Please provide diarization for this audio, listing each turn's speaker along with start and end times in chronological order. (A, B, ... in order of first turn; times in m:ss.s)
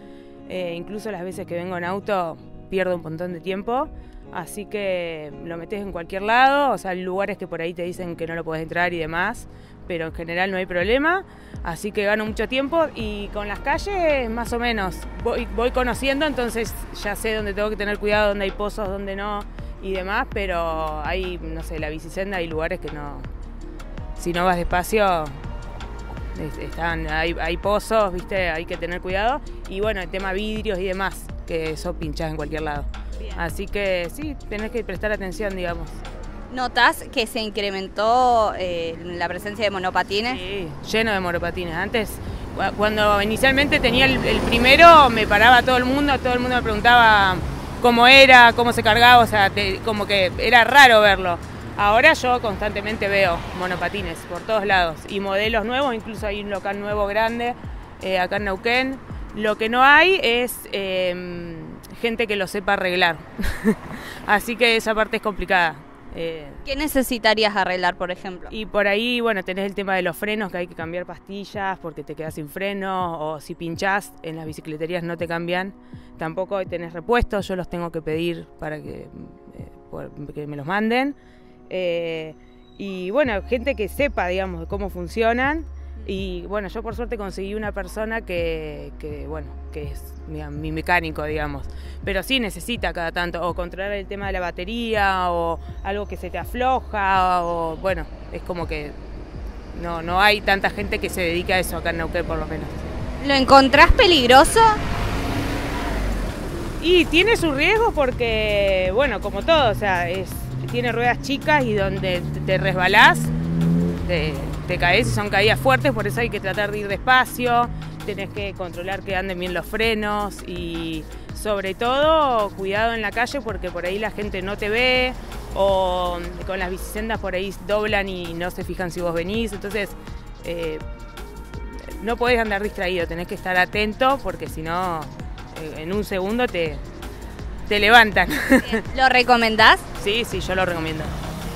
0:00.5-0:23.3 A
0:24.2-0:25.4 A
0:26.3-0:36.0 A
0:36.5-0:40.4 B
0:40.3-1:06.6 A
1:06.6-1:08.5 B
1:08.5-1:21.2 A
1:21.7-1:39.0 A
1:39.7-1:42.8 A
1:43.2-1:44.8 B
1:46.8-1:53.3 A
1:54.0-2:10.8 A
2:11.5-2:16.8 A
2:17.7-2:18.8 A
2:18.7-2:19.8 B
2:20.0-2:21.1 A